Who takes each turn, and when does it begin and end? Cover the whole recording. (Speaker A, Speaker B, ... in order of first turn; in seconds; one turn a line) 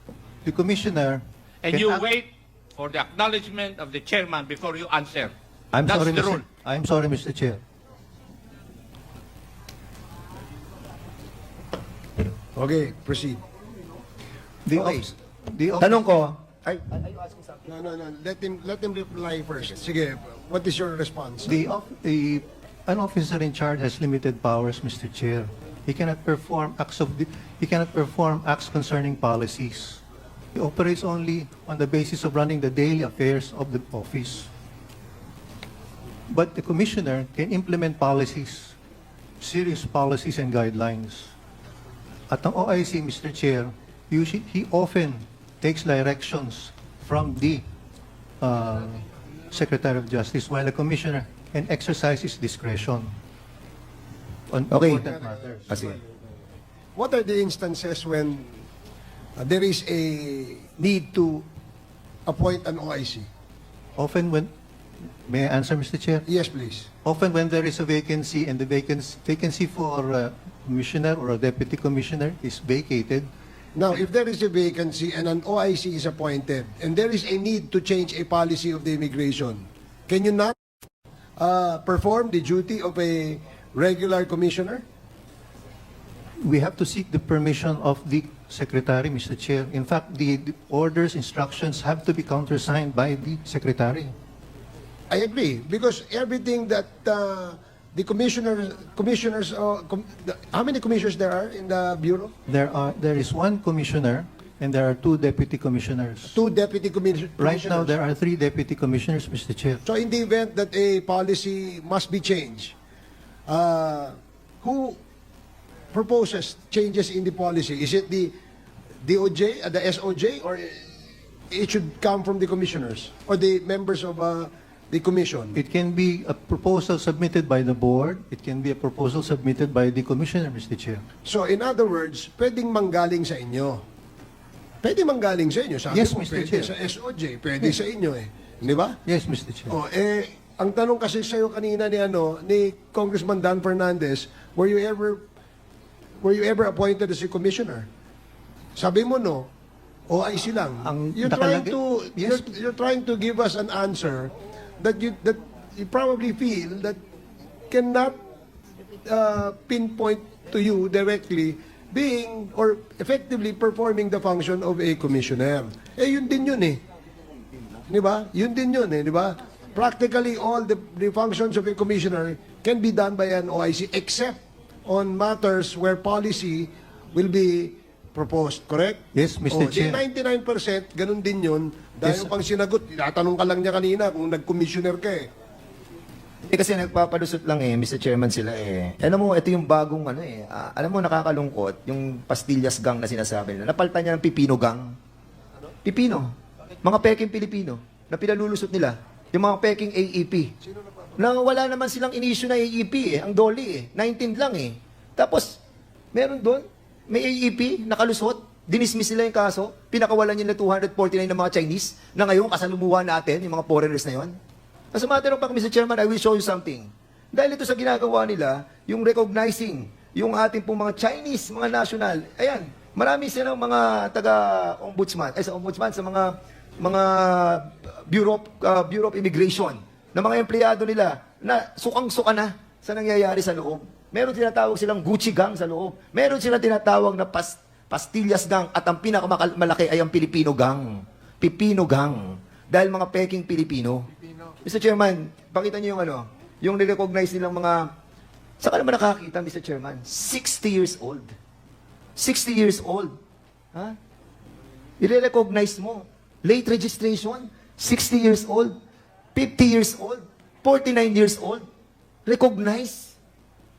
Speaker A: 0.4-2.1
Speaker B: 1.6-6.4
Speaker A: 5.7-7.6
Speaker C: 12.6-13.4
Speaker A: 14.7-16.0
Speaker D: 14.7-15.1
Speaker D: 15.8-17.6
Speaker C: 17.6-21.6
Speaker A: 21.5-30.0
Speaker A: 30.6-34.5
Speaker A: 36.3-38.8
Speaker A: 39.4-41.4
Speaker A: 42.3-47.6
Speaker A: 48.4-53.2
Speaker A: 54.5-55.9
Speaker D: 54.7-55.1
Speaker D: 55.7-56.0
Speaker C: 57.0-58.6
Speaker C: 59.4-61.5
Speaker C: 62.3-63.3
Speaker A: 64.0-64.5
Speaker A: 65.3-66.3
Speaker C: 66.3-66.9
Speaker A: 67.0-73.3
Speaker C: 73.8-80.6
Speaker C: 81.4-84.8
Speaker A: 86.4-94.1
Speaker C: 95.1-102.3
Speaker A: 102.5-106.4
Speaker C: 106.3-108.0
Speaker A: 107.4-109.8
Speaker C: 109.8-112.8
Speaker C: 113.5-115.0
Speaker C: 115.9-118.3
Speaker C: 119.0-120.9
Speaker C: 121.5-125.6
Speaker A: 125.5-131.1
Speaker C: 131.2-133.8
Speaker C: 134.8-139.0
Speaker A: 135.9-136.7
Speaker A: 139.1-139.7
Speaker C: 139.7-145.2
Speaker C: 146.2-147.9
Speaker C: 148.8-149.5
Speaker C: 150.1-157.0
Speaker A: 150.8-152.5
Speaker C: 157.7-158.2
Speaker C: 159.1-166.8
Speaker C: 167.9-185.3
Speaker A: 179.1-180.0
Speaker A: 182.0-182.3
Speaker D: 186.5-194.9
Speaker D: 195.8-200.5
Speaker C: 200.6-201.2
Speaker D: 201.2-205.6
Speaker D: 206.1-214.3
Speaker D: 214.9-244.1
Speaker D: 244.6-247.9
Speaker D: 248.6-251.3
Speaker D: 252.2-253.1
Speaker D: 255.0-258.8
Speaker D: 259.4-261.6
Speaker D: 262.3-263.1